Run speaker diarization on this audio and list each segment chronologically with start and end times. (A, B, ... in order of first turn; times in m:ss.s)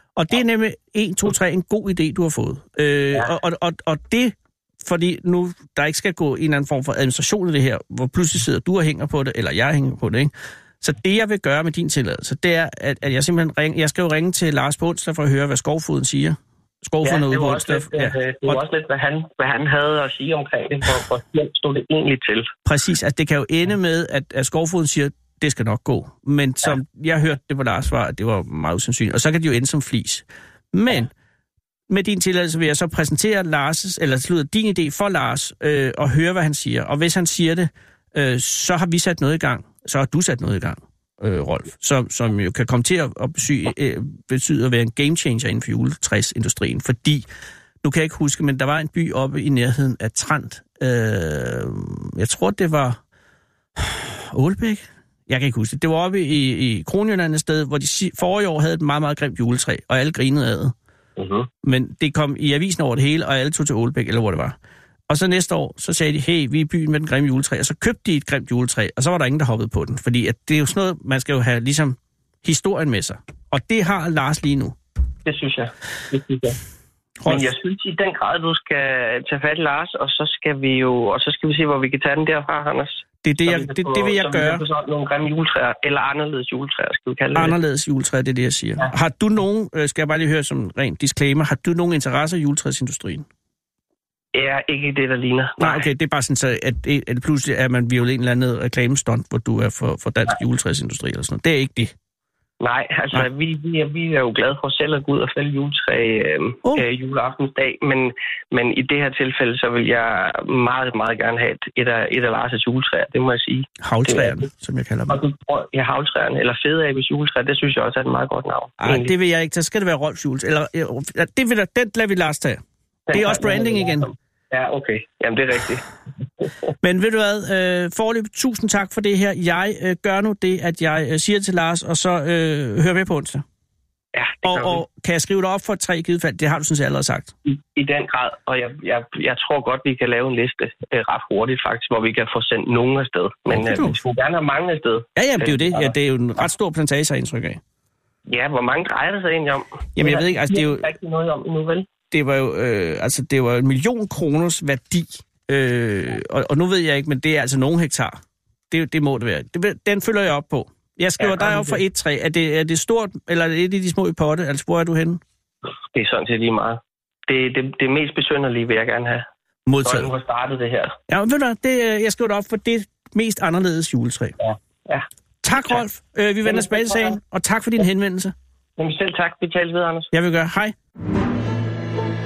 0:00.2-0:18.6 A
0:17.0-0:22.5 B
0:22.6-0:31.1 A
0:31.9-0:47.3 A
0:47.8-0:53.0 A
0:53.8-1:00.7 A
1:01.2-1:01.5 B
1:01.6-1:04.6 A
1:05.1-1:14.8 A
1:15.2-1:16.6 B
1:17.2-1:17.5 A
1:17.2-1:27.6 B
1:23.2-1:24.6 A
1:27.4-1:33.3 A
1:34.4-1:35.9 B
1:35.6-1:42.0 A
1:42.6-1:54.4 B
1:53.8-1:55.2 A
1:55.1-1:59.1 B
1:58.8-2:04.1 A
2:03.1-2:05.9 B
2:06.8-2:13.4 A
2:14.1-2:14.8 B
2:14.4-2:17.3 A
2:17.4-2:25.9 B
2:23.5-2:24.0 A
2:25.2-2:27.6 A
2:28.3-2:31.9 B
2:30.0-2:30.9 A
2:32.1-2:45.2 A
2:41.2-2:41.8 B
2:45.9-2:49.2 B
2:49.7-2:50.1 A
2:49.8-2:51.0 B
2:51.1-2:54.4 A
2:54.4-2:55.1 B
2:55.4-2:58.3 A
2:56.4-2:57.2 B
2:58.8-3:00.1 B
3:00.1-3:00.7 A